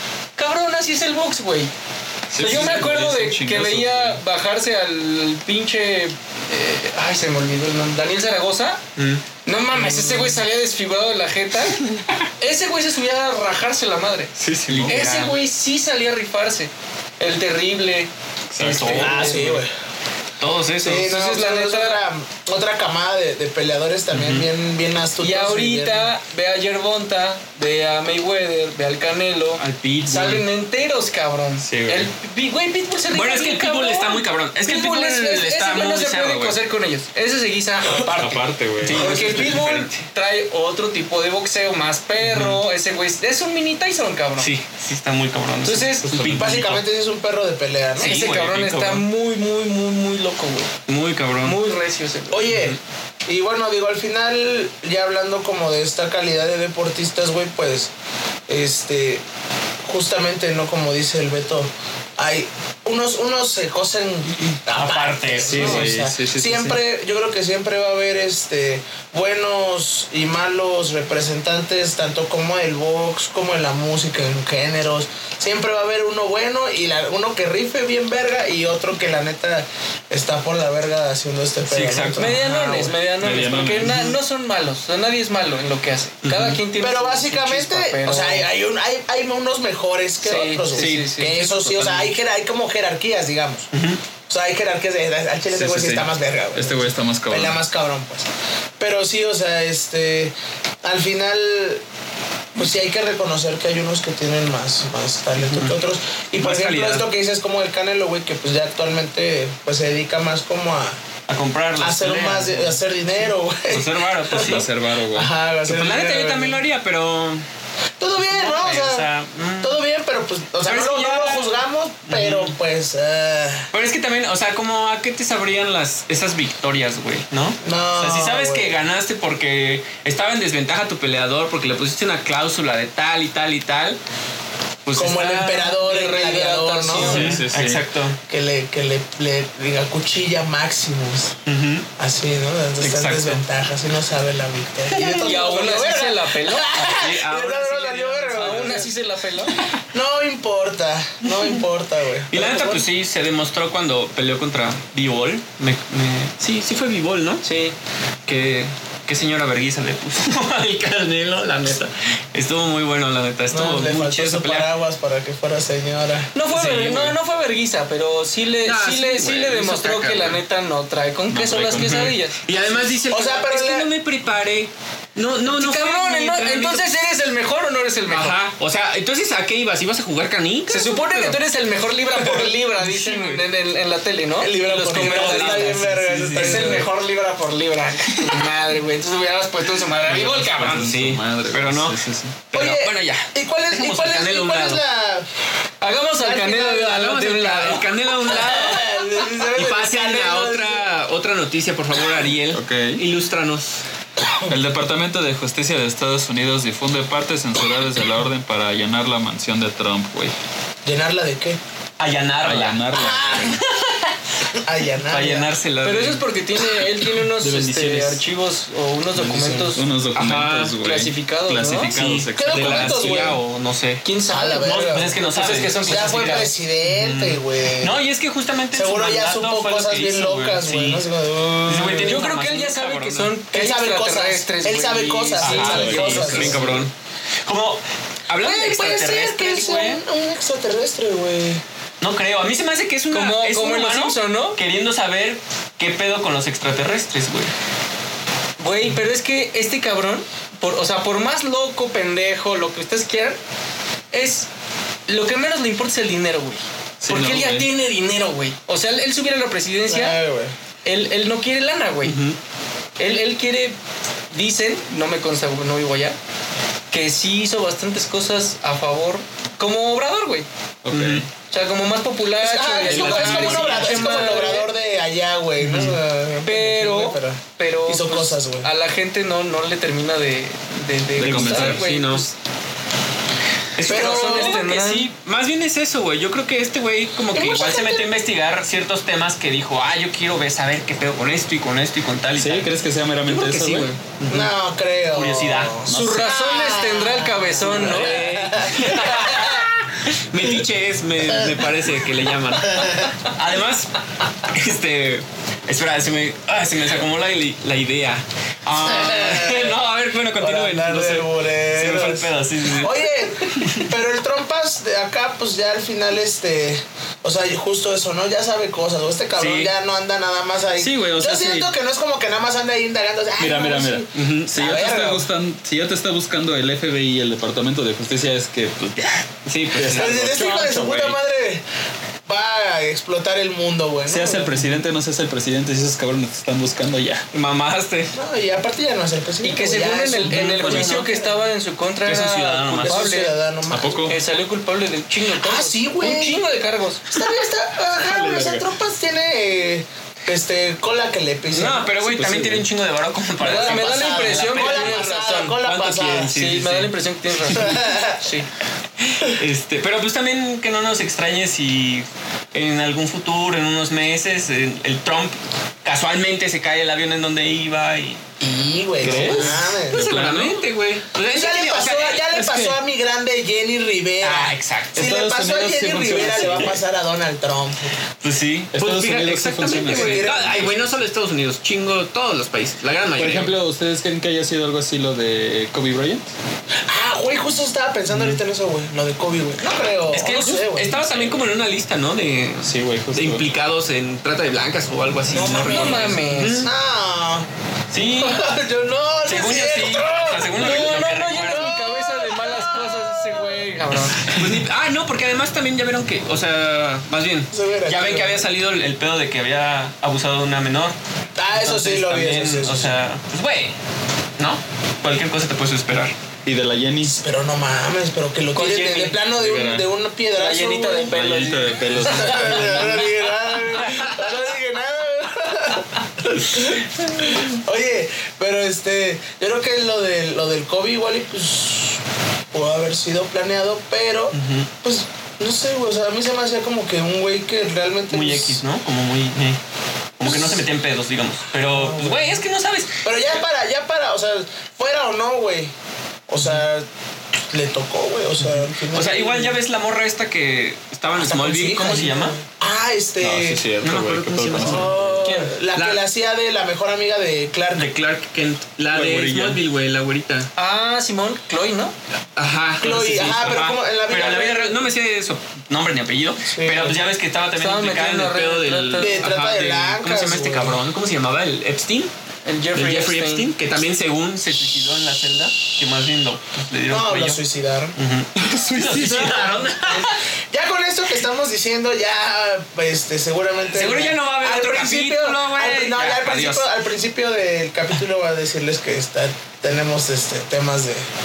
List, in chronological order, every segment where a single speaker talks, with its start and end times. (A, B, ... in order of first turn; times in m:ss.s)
0:00.4-0:01.7 A
0:02.3-0:04.2 B
0:02.4-0:08.8 A
0:09.0-0:09.2 C
0:09.4-0:14.3 A
0:09.7-0:10.4 D
0:14.4-0:15.3 B
0:14.7-0:15.3 C
0:14.9-0:19.6 A
0:18.5-0:19.3 B
0:18.6-0:19.3 C
0:19.0-0:19.7 D
0:20.4-0:21.1 C
0:20.8-0:26.1 D
0:20.8-0:22.0 A
0:24.1-0:24.5 C
0:25.2-0:44.5 A
0:29.6-0:30.4 C
0:31.6-0:32.1 B
0:33.1-0:36.6 C
0:37.9-0:38.2 D
0:38.2-0:39.6 B
0:38.8-0:40.1 C
0:42.2-0:42.6 C
0:44.4-0:46.8 C
0:45.6-0:46.2 A
0:46.0-0:46.8 B
0:46.2-0:48.2 D
0:48.0-0:49.0 C
0:48.0-0:50.7 A
0:50.9-0:51.6 C
0:51.4-0:52.5 A
0:52.3-0:57.9 D
0:52.5-0:52.8 C
0:58.5-0:59.2 D
0:59.8-1:22.9 D
1:04.7-1:05.9 C
1:05.5-1:06.8 B
1:21.6-1:22.3 C
1:22.2-1:28.5 A
1:23.2-1:24.2 B
1:26.2-1:26.6 C
1:26.8-1:33.7 D
1:30.2-1:31.3 A
1:30.7-1:32.1 C
1:33.7-1:34.0 C
1:34.3-1:38.3 D
1:35.5-1:37.6 B
1:38.8-1:41.8 D
1:42.5-1:51.0 D
1:45.4-1:45.8 C
1:46.4-1:47.0 C
1:51.3-1:54.7 C
1:51.8-1:56.6 D
1:54.3-1:55.3 B
1:55.6-1:57.4 C
1:58.0-1:59.0 D
1:58.2-1:59.8 C
1:59.6-2:03.7 D
2:00.6-2:01.6 C
2:02.1-2:02.5 C
2:03.7-2:14.0 C
2:07.6-2:08.8 D
2:14.8-2:15.8 C
2:14.9-2:17.4 D
2:15.7-2:17.4 A
2:17.0-2:17.8 B
2:17.0-2:18.2 C
2:18.3-2:21.3 D
2:21.4-2:21.8 C
2:22.0-2:28.9 D
2:22.8-2:23.4 C
2:24.9-2:25.4 C
2:24.9-2:26.7 A
2:26.7-2:28.9 C
2:28.3-2:29.6 A
2:29.8-2:32.8 D
2:31.2-2:31.6 C
2:32.3-2:37.4 C
2:37.4-2:37.7 A
2:38.2-2:44.7 C
2:43.5-2:46.3 D
2:46.3-2:52.6 A
2:46.5-2:47.2 C
2:48.6-2:50.4 C
2:51.3-2:52.1 B
2:51.8-2:56.8 C
2:53.1-2:53.9 D
2:55.5-2:58.4 A
2:58.1-3:01.4 C
3:00.7-3:10.9 A
3:02.2-3:02.5 D
3:02.8-3:03.4 C
3:04.4-3:06.9 D
3:04.9-3:06.8 C
3:10.0-3:12.4 B
3:10.1-3:14.8 C
3:12.5-3:15.3 D
3:15.8-3:17.9 A
3:16.2-3:17.1 D
3:16.9-3:23.8 C
3:18.3-3:20.8 D
3:22.5-3:23.0 B
3:24.2-3:24.5 D
3:24.5-3:30.3 B
3:30.8-3:31.6 D
3:32.0-3:32.8 C
3:32.4-3:33.6 B
3:32.9-3:33.6 D
3:33.4-3:34.1 C
3:34.5-3:35.5 D
3:35.0-3:36.2 C
3:35.8-3:39.9 A
3:37.4-3:38.2 B
3:39.1-3:43.2 B
3:40.1-3:40.7 C
3:40.8-3:42.0 A
3:41.9-3:51.0 C
3:42.3-3:43.4 D
3:44.0-3:46.5 A
3:44.3-3:45.1 D
3:45.8-3:48.0 D
3:48.7-3:52.2 D
3:51.6-3:53.3 C
3:52.0-3:56.4 A
3:53.5-3:56.6 D
3:55.4-3:56.9 C
3:55.6-3:56.9 B
3:57.4-4:00.0 C
3:58.4-4:01.6 D
4:02.0-4:07.5 C
4:03.1-4:04.6 A
4:08.6-4:13.4 A
4:14.1-4:14.5 A
4:15.1-4:20.2 A
4:17.0-4:17.7 B
4:19.9-4:20.5 D
4:20.8-4:22.2 A
4:22.0-4:22.4 C
4:23.0-4:23.8 A
4:24.3-4:26.2 A
4:26.9-4:30.5 A
4:30.8-4:31.3 B
4:30.9-4:31.2 C
4:31.5-4:34.7 A
4:32.4-4:38.7 D
4:32.8-4:34.3 C
4:35.6-4:35.9 B
4:36.4-4:42.3 A
4:41.2-4:41.8 B
4:41.3-4:42.2 C
4:43.8-4:52.7 C
4:43.8-4:45.1 A
4:43.9-4:44.6 D
4:47.3-4:48.1 D
4:52.4-4:53.9 B
4:53.2-4:54.5 C
4:54.3-4:59.6 D
4:55.1-4:55.8 C
4:55.9-4:56.4 B
4:55.9-4:58.4 A
4:57.6-5:13.9 C
5:02.5-5:03.2 D
5:08.8-5:09.8 D
5:10.4-5:25.3 D
5:19.4-5:19.7 C
5:20.8-5:21.7 B
5:23.4-5:31.2 B
5:24.1-5:24.5 C
5:29.4-5:30.1 C
5:29.9-5:31.6 D
5:32.2-5:34.6 D
5:34.1-5:37.2 B
5:37.3-5:38.1 C
5:38.1-5:41.4 D
5:39.4-5:43.3 A
5:40.3-5:41.0 C
5:42.0-5:43.0 C
5:42.8-5:44.1 D
5:43.7-5:44.2 B
5:44.1-5:47.2 A
5:45.3-5:46.4 D
5:47.1-5:51.9 D
5:48.0-5:48.7 B
5:51.5-5:55.0 C
5:52.0-5:52.7 B
5:53.4-5:55.6 A
5:53.4-5:56.3 D
5:55.6-5:56.9 C
5:56.2-5:58.5 A
5:57.4-5:58.2 D
5:59.1-6:08.2 C
6:08.4-6:10.1 D
6:09.0-6:10.6 B
6:09.0-6:12.6 C
6:11.3-6:18.0 D
6:12.3-6:12.8 B
6:14.2-6:15.2 C
6:14.9-6:16.8 B
6:16.2-6:16.7 C
6:18.2-6:23.5 C
6:18.7-6:20.9 B
6:19.9-6:20.7 D
6:23.2-6:26.3 B
6:26.9-6:31.0 D
6:28.1-6:28.4 C
6:30.1-6:36.7 C
6:32.6-6:33.5 B
6:35.3-6:37.5 D
6:35.3-6:36.7 A
6:37.9-6:38.5 C
6:38.2-6:43.4 D
6:39.2-6:41.8 C
6:40.5-6:44.4 A
6:44.2-6:51.0 C
6:47.5-6:48.4 D
6:51.4-6:53.0 D
6:51.5-6:53.7 C
6:54.4-6:56.1 C
6:56.4-6:57.2 B
6:57.0-7:12.0 D
6:58.5-6:59.2 A
6:59.3-6:59.9 B
7:00.3-7:02.9 A
7:01.1-7:03.2 B
7:12.5-7:18.6 D
7:14.3-7:14.7 C
7:18.1-7:19.6 C
7:20.2-7:23.4 C
7:20.2-7:20.6 D
7:21.7-7:22.4 D
7:23.0-7:25.7 D
7:26.3-7:26.9 D
7:27.5-7:29.6 D
7:28.4-7:32.4 C
7:31.2-7:33.6 D
7:33.2-7:35.3 B
7:33.8-7:36.0 C
7:34.6-7:37.8 D
7:35.2-7:35.5 A
7:37.7-7:40.5 C
7:38.9-7:39.6 B
7:40.6-7:41.9 A
7:42.4-7:52.1 C
7:42.8-7:44.8 D
7:46.4-7:47.0 D
7:47.6-7:49.3 A
7:49.0-7:50.8 D
7:52.4-7:53.5 A
7:52.7-7:57.4 C
7:56.9-7:58.0 D
7:58.0-8:00.2 C
7:58.5-7:59.3 B
7:59.0-8:11.1 D
8:03.7-8:06.7 C